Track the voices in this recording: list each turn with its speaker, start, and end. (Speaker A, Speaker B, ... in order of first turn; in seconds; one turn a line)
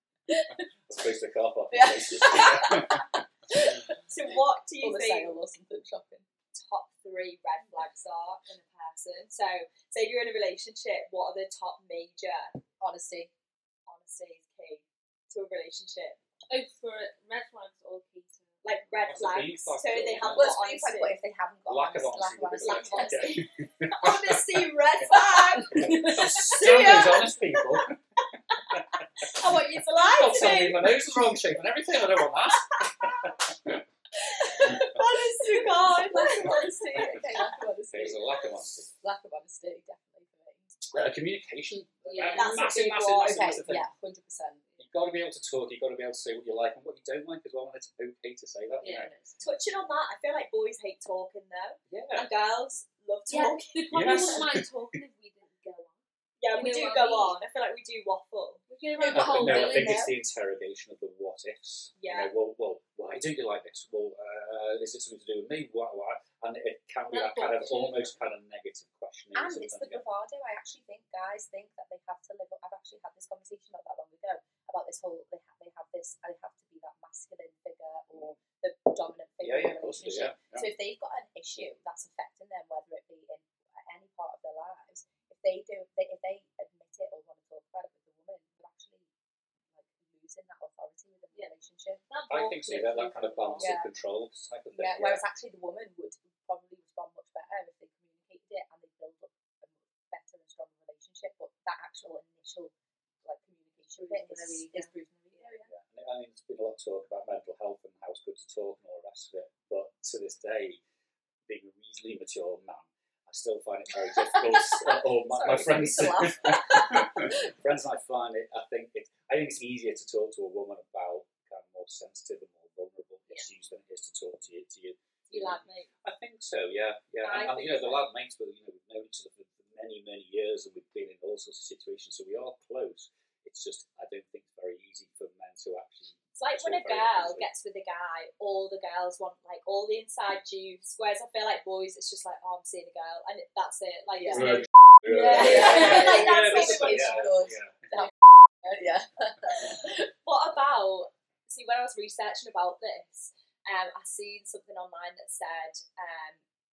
Speaker A: 0.3-0.7
Speaker B: 0.9-3.6
Speaker A: 1.7-4.0
Speaker C: 4.1-5.3
Speaker A: 4.8-6.3
Speaker C: 6.5-12.6
Speaker A: 12.8-13.3
Speaker C: 13.9-16.2
Speaker D: 16.5-18.9
Speaker C: 18.6-21.2
Speaker B: 19.0-20.5
Speaker A: 20.3-23.4
Speaker B: 21.7-24.5
Speaker C: 22.6-27.5
Speaker D: 25.6-26.8
Speaker B: 25.7-28.0
Speaker B: 28.6-29.3
Speaker C: 29.2-31.0
Speaker B: 29.9-33.8
Speaker C: 32.7-33.3
Speaker C: 34.2-37.3
Speaker A: 34.6-34.9
Speaker A: 35.6-40.7
Speaker B: 37.0-38.9
Speaker B: 40.9-43.9
Speaker D: 42.1-42.8
Speaker C: 42.4-42.9
Speaker A: 42.6-44.6
Speaker B: 44.8-49.1
Speaker D: 48.8-49.5
Speaker C: 49.4-54.4
Speaker B: 51.9-52.3
Speaker D: 53.3-56.0
Speaker B: 53.9-55.0
Speaker C: 56.4-58.6
Speaker D: 56.5-57.4
Speaker D: 58.7-60.1
Speaker A: 59.0-60.1
Speaker B: 59.0-70.0
Speaker C: 62.0-62.3
Speaker D: 67.1-68.3
Speaker A: 69.3-89.1
Speaker B: 79.4-80.7
Speaker A: 89.7-92.0
Speaker D: 92.1-93.8
Speaker B: 92.3-95.2
Speaker A: 93.6-93.9
Speaker A: 94.7-102.7
Speaker A: 103.2-105.7
Speaker D: 104.0-104.9
Speaker B: 105.7-110.8
Speaker B: 111.5-137.5
Speaker A: 114.3-117.5
Speaker C: 125.3-125.9
Speaker C: 127.2-128.0
Speaker C: 136.3-147.2
Speaker A: 144.2-150.1
Speaker B: 144.3-147.9
Speaker D: 145.6-146.1
Speaker C: 150.2-156.4